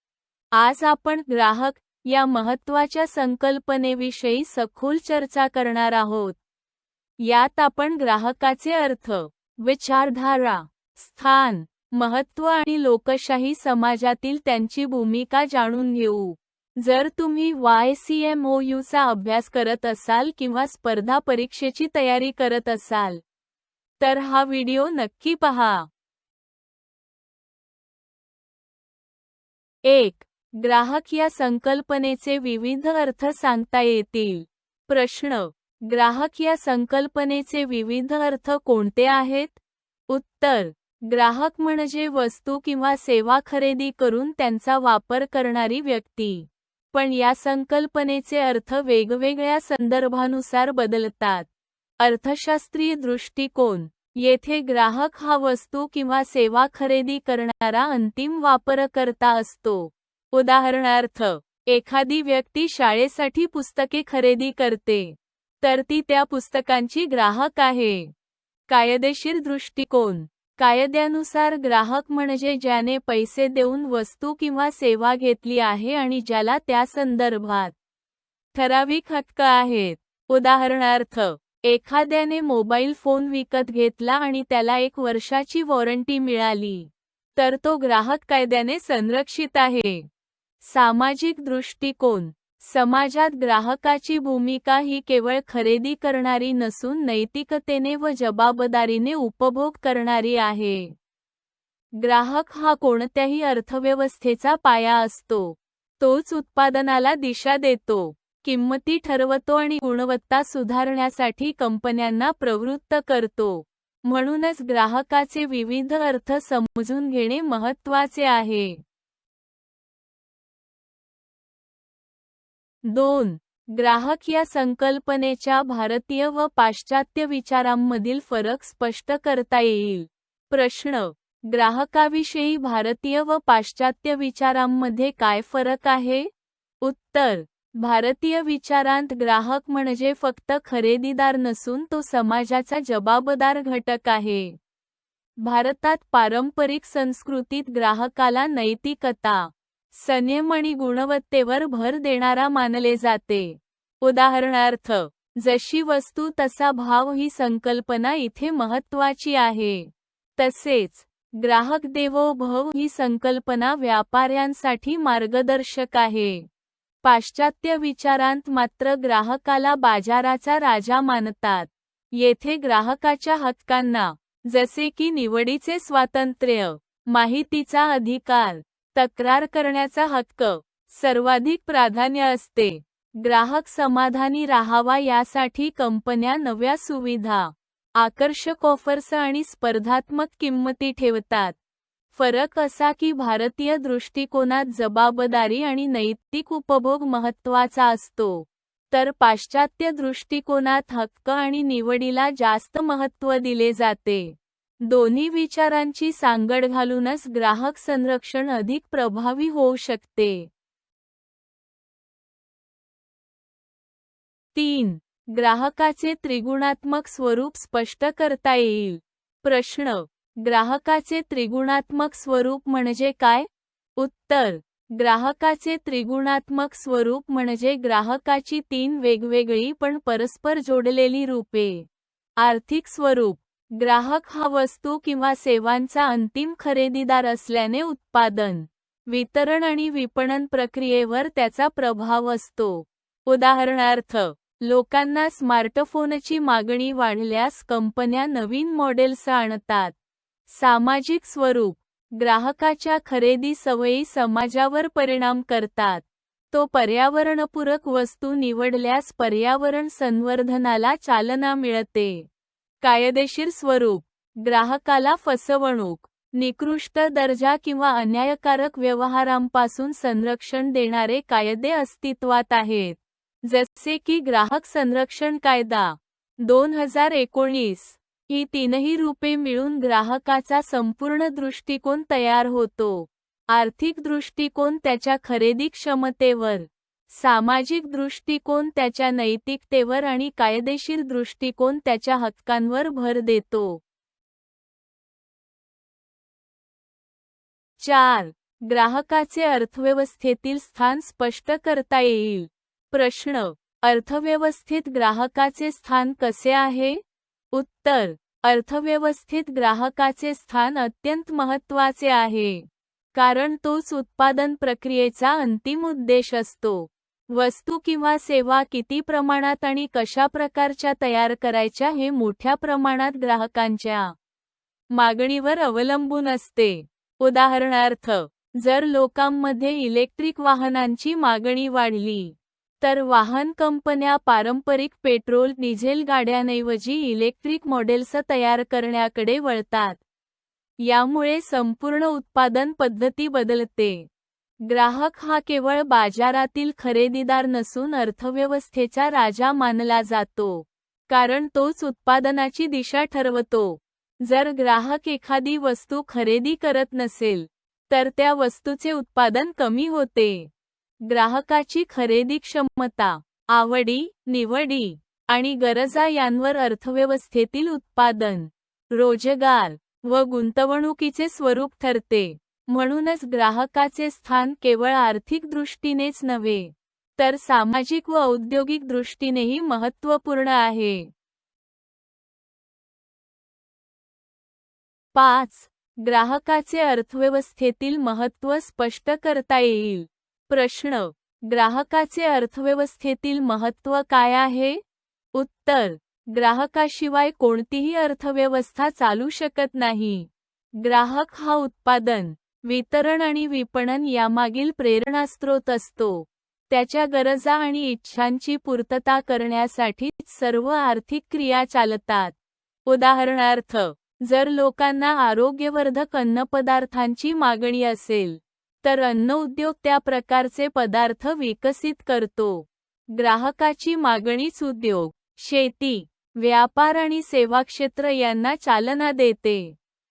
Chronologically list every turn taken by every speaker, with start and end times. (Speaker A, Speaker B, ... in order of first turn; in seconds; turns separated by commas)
Speaker A: 0.6-6.4, Speaker A: 7.2-23.2, Speaker A: 24.0-25.9, Speaker A: 29.8-51.5, Speaker A: 52.0-68.1, Speaker A: 68.7-77.7, Speaker A: 78.5-90.0, Speaker A: 90.6-100.9, Speaker A: 102.0-118.8, Speaker A: 122.8-136.3, Speaker A: 136.8-144.6, Speaker A: 145.4-166.4, Speaker A: 167.0-191.6, Speaker A: 192.1-210.5, Speaker A: 214.5-249.9, Speaker A: 250.5-262.3, Speaker A: 262.8-293.8, Speaker A: 297.8-307.0, Speaker A: 307.5-324.1, Speaker A: 324.9-340.0, Speaker A: 340.8-344.1, Speaker A: 344.6-360.5, Speaker A: 361.1-381.1, Speaker A: 385.1-394.8, Speaker A: 395.3-400.3, Speaker A: 400.8-412.4, Speaker A: 412.9-429.8